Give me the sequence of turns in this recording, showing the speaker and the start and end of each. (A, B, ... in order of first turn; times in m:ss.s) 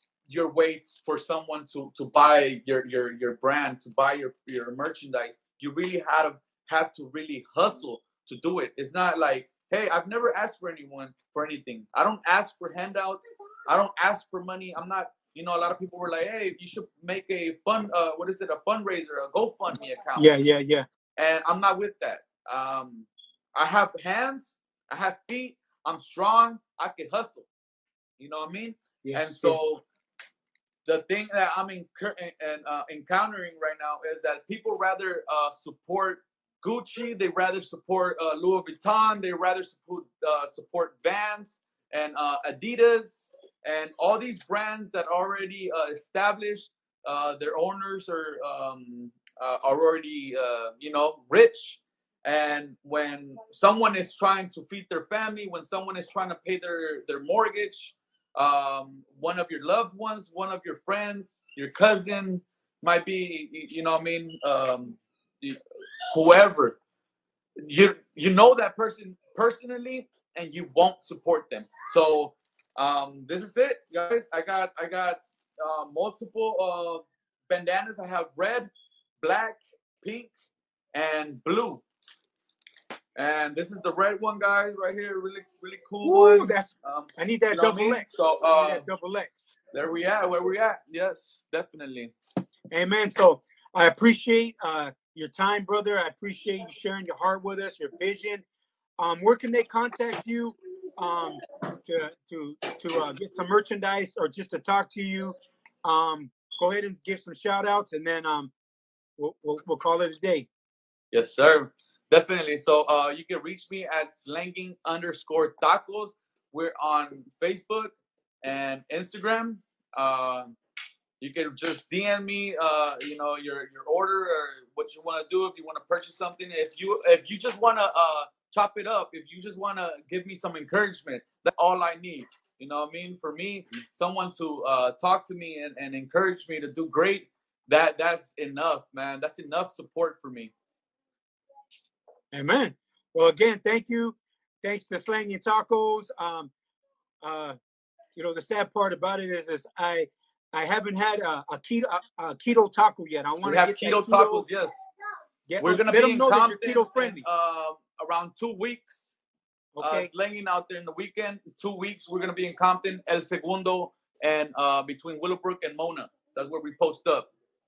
0:00.3-0:20.3 A
0:20.2-0:20.8 B
0:21.2-0:27.5 A
0:28.2-0:29.8 A
0:29.0-0:29.6 B
0:30.8-1:05.6 A
1:06.1-1:06.8 A
1:07.6-1:18.7 A
1:19.2-1:20.3 A
1:20.9-1:21.8 A
1:23.2-1:28.9 A
1:26.0-1:29.6 B
1:29.7-1:32.1 A
1:32.7-1:38.4 B
1:39.0-1:48.5 B
1:49.2-1:50.5 B
1:51.1-2:00.6 A
2:01.2-2:20.5 A
2:22.3-2:26.5 B
2:27.2-2:27.6 B
2:28.2-2:34.4 B
2:33.4-2:34.8 A
2:35.5-2:37.2 B
2:35.6-2:39.1 A
2:39.7-2:40.1 B
2:39.8-2:47.3 A